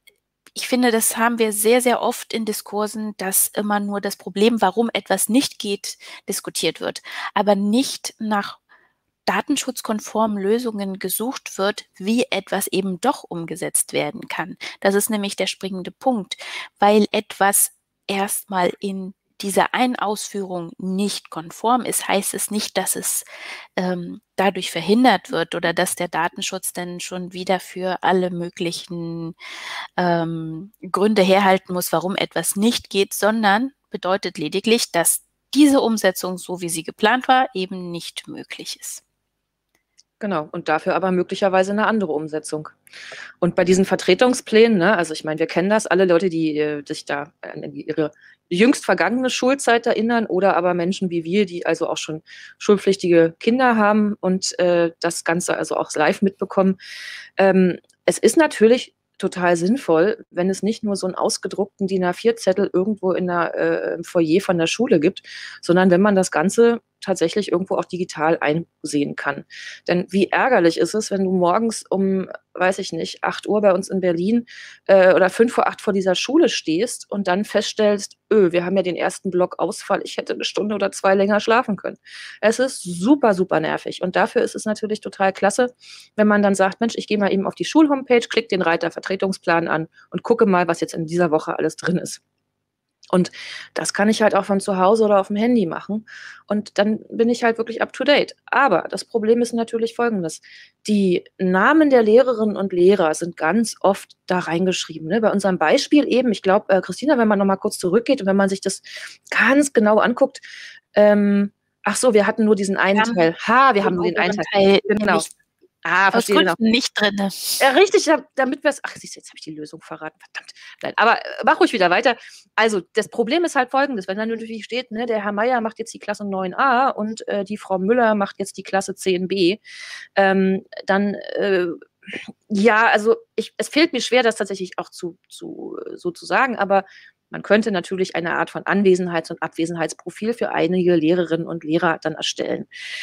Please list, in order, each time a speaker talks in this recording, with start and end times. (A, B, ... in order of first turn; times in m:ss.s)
0:00.5-0:08.6 A
0:09.2-0:23.2 A
0:23.8-0:29.3 A
0:30.0-0:39.0 A
0:40.2-0:42.7 B
0:43.4-0:56.8 B
0:57.4-1:32.2 B
1:33.1-1:50.4 B
1:50.9-1:55.2 B
1:53.0-1:53.3 A
1:53.8-1:55.3 A
1:55.8-1:56.6 B
1:56.1-1:57.6 A
1:57.6-2:09.6 B
2:10.2-2:22.7 B